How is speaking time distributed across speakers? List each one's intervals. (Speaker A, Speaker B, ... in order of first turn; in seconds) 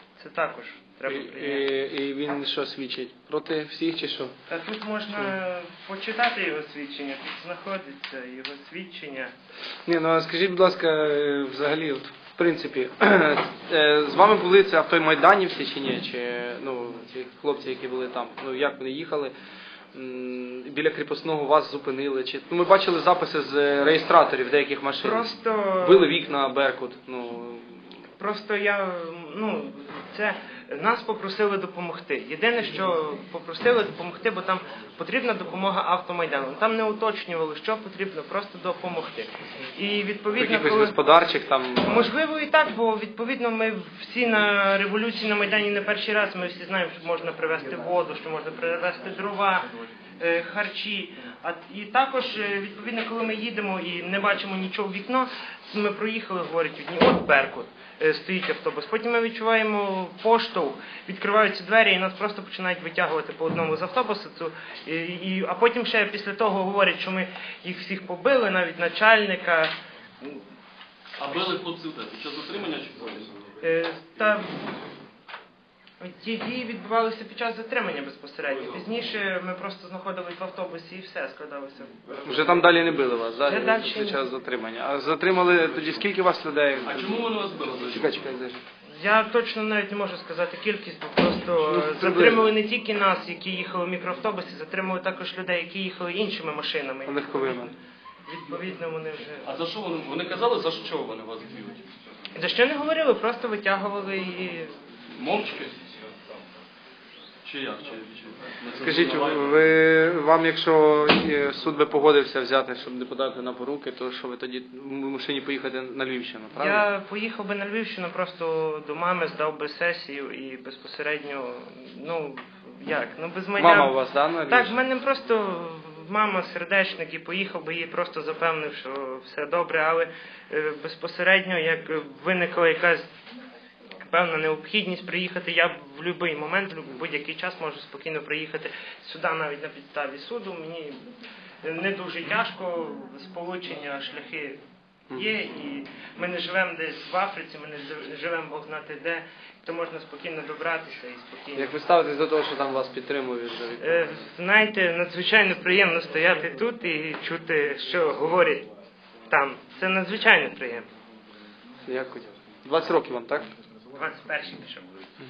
Speaker A: 0.2-1.7, 4.5-9.3, 25.0-26.1, 28.2-41.0, 41.8-70.4, 73.6-74.7, 76.0-82.2, 83.5-84.3, 88.9-97.7, 98.3-99.5, 102.3-104.8, 116.5-133.1, 134.0-141.1, 141.6-144.6, 145.1-151.8, 153.8-158.7, 159.3-160.9, 163.9-164.9
Speaker B: 1.1-4.3, 9.8-19.3, 19.9-25.3, 25.8-27.9, 40.4-42.1, 82.2-87.3, 87.9-88.6, 91.6-92.5, 97.1-97.7, 108.8-116.8, 123.6-124.7, 151.6-154.0, 161.8-163.5
Speaker C: 71.2-73.4, 86.8-88.3, 99.5-101.8, 105.1-105.8, 107.5-109.6